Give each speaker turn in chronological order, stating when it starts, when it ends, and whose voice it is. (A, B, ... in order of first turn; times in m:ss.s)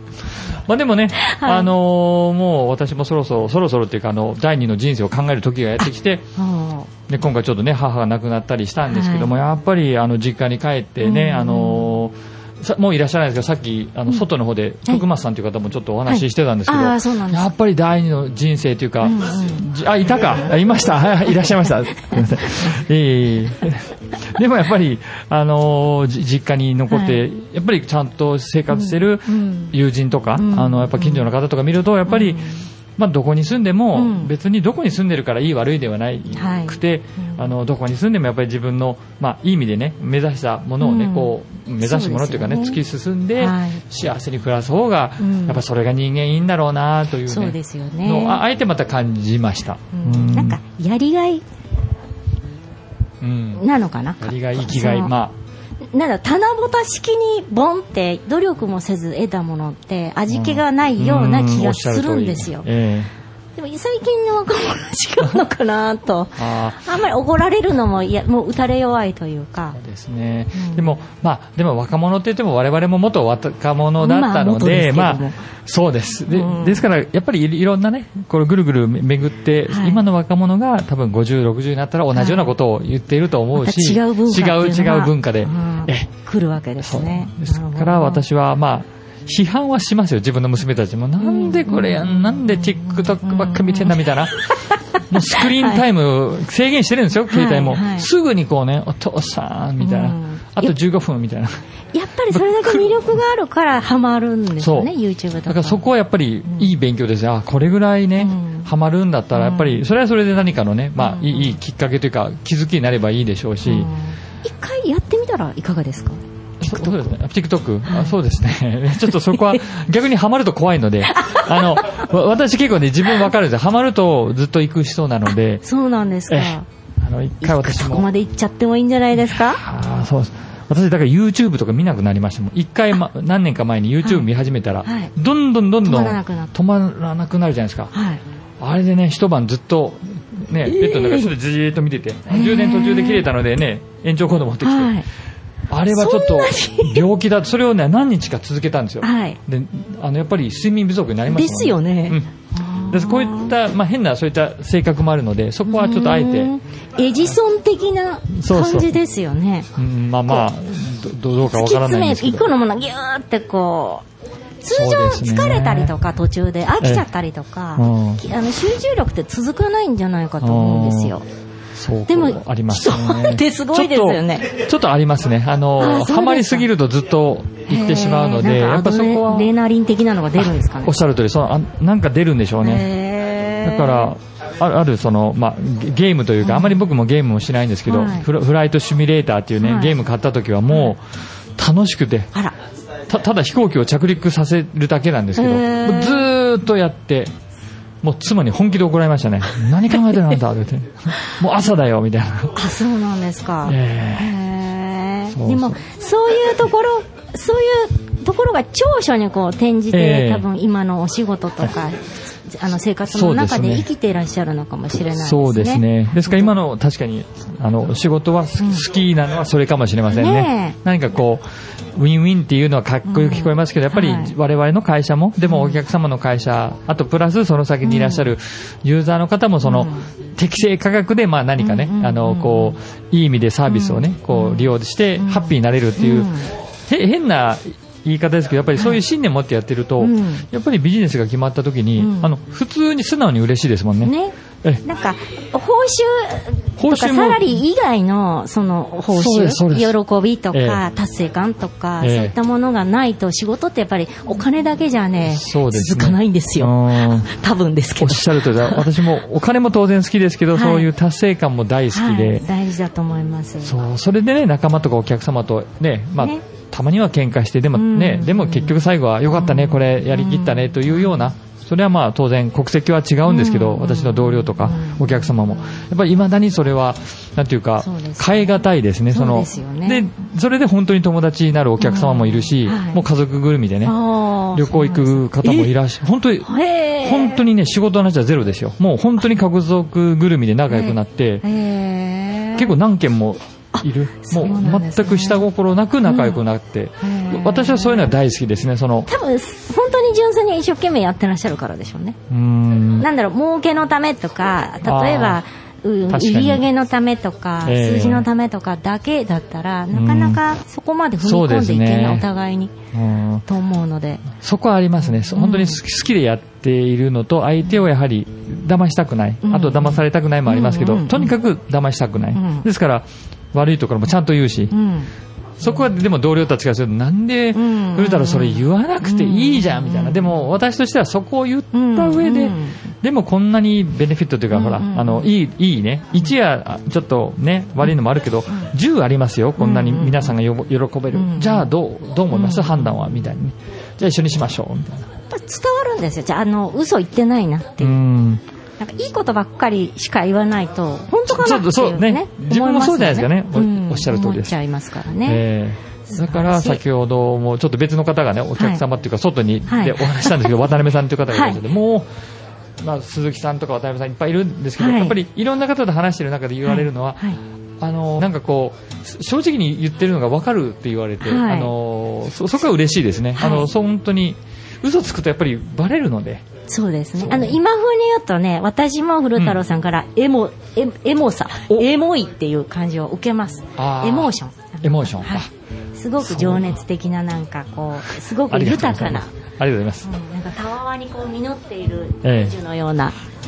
0:00.6-0:06.2 A
0:01.2-0:01.7 B
0:05.8-0:06.9 B
0:07.1-0:50.6 A
0:08.9-0:09.3 B
0:11.0-0:12.0 B
0:16.0-0:17.5 B
0:19.0-0:19.7 B
0:26.9-0:27.2 B
0:28.7-0:29.8 B
0:30.4-0:31.3 B
0:32.0-0:32.6 B
0:33.9-0:34.3 B
0:36.3-0:37.5 B
0:40.8-0:42.8 B
0:43.4-0:43.8 B
0:45.2-0:45.6 B
0:47.2-0:48.4 B
0:49.9-0:51.4 B
0:53.2-0:53.7 A
0:53.6-0:55.1 B
0:54.2-0:55.3 A
0:55.9-1:02.7 B
1:00.3-1:03.1 A
1:03.6-1:09.8 B
1:06.4-1:06.9 A
1:09.7-1:26.1 A
1:10.5-1:10.9 B
1:14.0-1:15.4 B
1:16.3-1:16.8 B
1:19.7-1:20.0 B
1:22.1-1:22.5 B
1:23.5-1:28.2 B
1:26.8-1:34.5 A
1:31.2-1:35.8 B
1:35.1-1:41.6 A
1:37.3-1:38.1 B
1:39.8-1:40.7 B
1:41.9-1:45.8 B
1:42.3-1:43.2 A
1:44.6-1:44.9 A
1:45.5-1:53.9 A
1:48.2-1:48.7 B
1:49.3-1:49.8 B
1:51.0-1:51.6 B
1:53.6-1:57.1 B
1:56.6-2:05.6 A
1:57.9-1:58.1 B
1:59.1-1:59.6 B
2:01.1-2:02.0 B
2:05.6-2:06.6 B
2:06.3-2:08.1 A
2:07.4-2:09.6 B
2:09.3-2:17.9 A
2:14.8-2:15.1 B
2:15.8-2:16.5 B
2:17.9-2:18.2 B
2:18.6-2:25.0 A
2:20.6-2:21.3 B
2:22.3-2:23.3 B
2:24.6-2:25.0 B
2:25.7-2:32.3 A
2:25.9-2:27.1 B
2:29.0-2:29.4 B
2:31.3-2:33.5 B
2:32.9-2:36.5 A
2:35.6-2:39.7 B
2:38.3-2:38.9 A
2:39.8-2:42.5 A
2:41.4-2:44.0 B
2:44.6-2:51.2 B
2:44.7-2:45.9 A
2:46.8-2:47.0 A
2:47.8-2:48.2 A
2:50.4-2:51.2 A
2:51.8-2:59.5 A
2:52.1-2:54.5 B
2:55.8-2:56.7 B
2:57.7-3:01.0 B
3:00.4-3:02.9 A
3:02.6-3:04.1 B
3:03.6-3:11.0 A
3:06.4-3:06.8 B
3:07.9-3:08.3 B
3:09.6-3:10.0 B
3:10.7-3:10.9 B
3:11.6-3:12.3 A
3:13.1-3:17.3 A
3:15.4-3:16.3 B
3:18.0-3:22.6 A
3:22.5-3:36.5 B
3:23.6-3:24.3 A
3:25.3-3:25.8 A
3:29.9-3:30.4 A
3:33.1-3:33.9 A
3:35.1-3:56.3 A
3:38.6-3:38.9 B
3:40.1-3:40.8 B
3:43.0-3:44.3 B
3:45.4-3:45.8 B
3:47.8-3:48.3 B
3:49.6-3:50.1 B
3:51.6-3:52.8 B
3:53.6-3:56.5 B
3:56.9-4:04.1 A
4:00.0-4:00.5 B
4:02.0-4:02.3 B
4:04.0-4:18.9 B
4:06.8-4:07.6 A
4:09.1-4:09.9 A
4:10.5-4:10.8 A
4:12.0-4:12.3 A
4:15.2-4:17.3 A
4:18.0-4:22.4 A
4:20.5-4:20.9 B
4:21.9-4:23.8 B
4:23.6-4:44.0 A
4:26.2-4:26.4 B
4:27.7-4:31.2 B
4:33.2-4:35.8 B
4:37.8-4:40.1 B
4:41.8-4:43.0 B
4:43.8-4:45.7 B
4:44.5-4:51.4 A
4:46.4-4:47.4 B
4:50.7-4:52.7 B
4:52.6-4:59.1 A
4:53.7-4:55.5 B
4:56.0-4:56.4 B
4:57.0-4:58.1 B
4:59.1-5:02.2 B
5:02.3-5:03.1 A
5:03.0-5:12.7 B
5:04.8-5:05.4 A
5:06.1-5:06.6 A
5:07.6-5:08.3 A
5:09.9-5:10.4 A
5:11.2-5:12.3 A
5:12.9-5:13.4 A
5:13.5-5:14.2 B
5:14.4-5:24.7 A
5:15.2-5:15.8 B
5:19.4-5:21.3 B
5:22.3-5:22.7 B
5:24.7-5:25.1 B
5:25.6-5:45.0 A
5:25.6-5:25.9 B
5:27.5-5:30.4 B
5:31.7-5:32.8 B
5:34.5-5:35.3 B
5:39.6-5:40.3 B
5:41.1-5:41.7 B
5:42.3-5:43.1 B
5:45.3-5:48.0 B
5:47.8-5:48.4 A
5:48.8-5:55.4 B
5:51.3-5:54.6 A
5:55.2-6:02.1 A
5:56.1-5:56.8 B
5:58.6-5:58.8 B
5:59.7-6:00.7 B
6:01.3-6:01.6 B
6:02.8-6:16.4 A
6:04.8-6:05.2 B
6:06.6-6:07.4 B
6:11.2-6:11.7 B
6:13.4-6:13.7 B
6:16.7-6:29.3 B
6:17.2-6:17.6 A
6:19.4-6:19.6 A
6:23.8-6:25.5 A
6:26.2-6:26.8 A
6:28.5-6:30.1 A
6:30.0-6:33.2 B
6:32.2-6:32.5 A